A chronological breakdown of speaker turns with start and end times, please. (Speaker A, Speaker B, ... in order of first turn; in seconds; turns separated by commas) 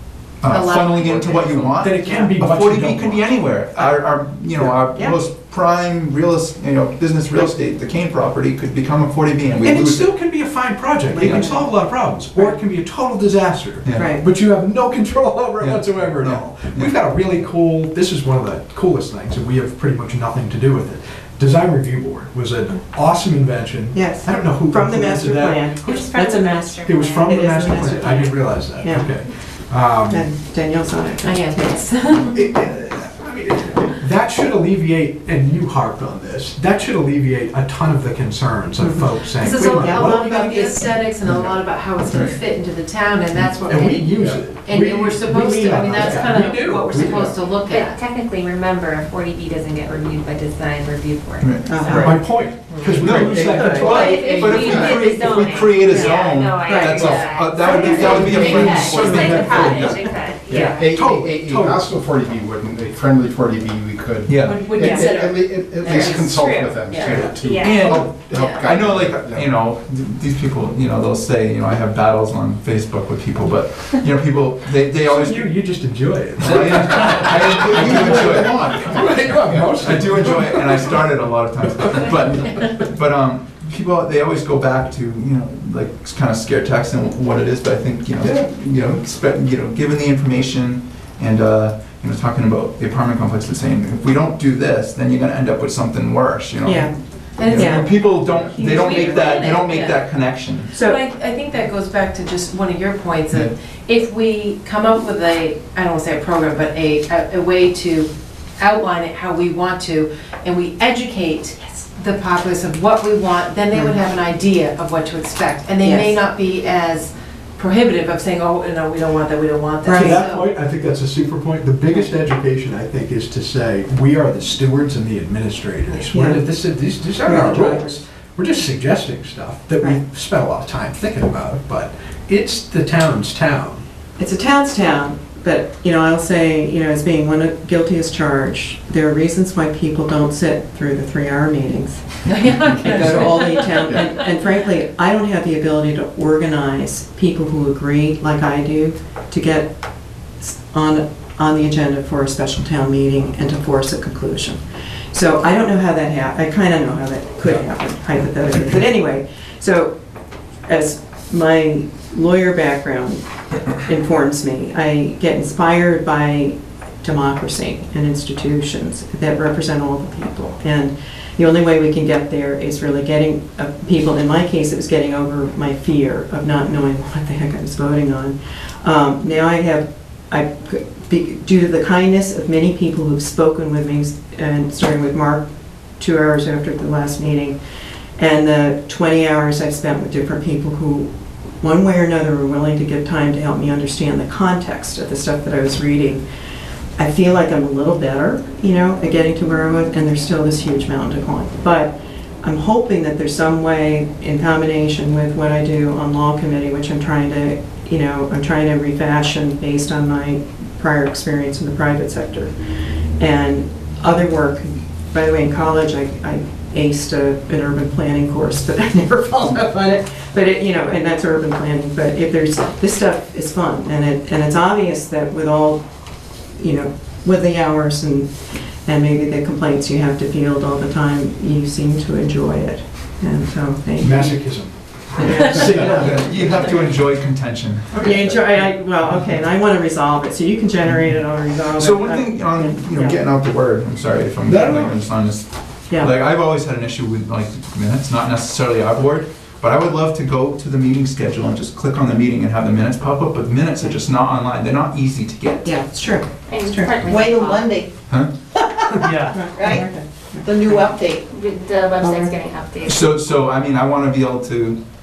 Speaker A: 0.4-10.1, Speaker B: 0.5-2.3, Speaker C: 1.8-3.4, Speaker D: 4.9-5.2, Speaker C: 9.6-26.2, Speaker D: 11.1-11.8, Speaker A: 11.2-11.5, Speaker D: 13.9-14.2, Speaker A: 15.6-17.0, Speaker D: 23.9-29.1, Speaker E: 25.8-28.3, Speaker C: 26.7-30.3, Speaker D: 30.1-31.8, Speaker B: 31.2-32.5, Speaker C: 32.3-40.9, Speaker D: 38.8-40.7, Speaker B: 39.4-48.0, Speaker C: 43.6-47.5, Speaker E: 47.6-52.2, Speaker A: 51.4-51.9, Speaker D: 51.7-54.7, Speaker C: 51.9-54.5, Speaker A: 53.0-60.1, Speaker E: 53.8-61.0, Speaker B: 54.1-55.3, Speaker D: 56.6-58.6, Speaker F: 57.1-59.9, Speaker C: 58.5-61.9, Speaker F: 60.5-69.5, Speaker A: 64.3-64.7, Speaker B: 64.3-67.4, Speaker D: 64.8-65.2, Speaker E: 65.9-66.1, Speaker C: 67.1-67.4, Speaker E: 67.3-68.0, Speaker A: 67.6-75.5, Speaker B: 68.3-68.7, Speaker C: 75.0-81.2, Speaker A: 76.4-78.8, Speaker F: 77.5-80.1, Speaker A: 79.8-100.7, Speaker C: 81.8-82.0, Speaker C: 88.2-88.5, Speaker D: 96.6-96.9, Speaker B: 97.4-98.0, Speaker D: 97.5-99.6, Speaker B: 98.5-100.0, Speaker D: 100.7-101.0, Speaker B: 100.8-120.5, Speaker D: 115.8-116.2, Speaker D: 119.8-120.2, Speaker C: 119.9-133.8, Speaker D: 126.1-126.5, Speaker D: 127.2-128.0, Speaker D: 134.2-149.7, Speaker B: 142.3-144.0, Speaker D: 150.4-154.6, Speaker D: 155.1-159.9, Speaker D: 160.7-163.2, Speaker D: 163.8-187.6, Speaker D: 188.2-191.1, Speaker D: 191.6-196.2, Speaker D: 197.0-212.5, Speaker D: 213.2-225.8, Speaker D: 226.6-228.3, Speaker D: 228.8-234.5, Speaker C: 234.0-236.9, Speaker D: 235.2-236.7, Speaker A: 235.2-238.4, Speaker C: 237.9-238.3, Speaker D: 238.0-243.2, Speaker A: 241.8-255.8, Speaker C: 244.4-245.0, Speaker D: 255.7-256.9, Speaker E: 256.5-257.7, Speaker G: 257.1-257.9, Speaker G: 258.6-259.8, Speaker C: 259.0-259.3, Speaker D: 259.3-260.9, Speaker G: 260.4-261.3, Speaker E: 261.3-263.1, Speaker A: 262.8-264.8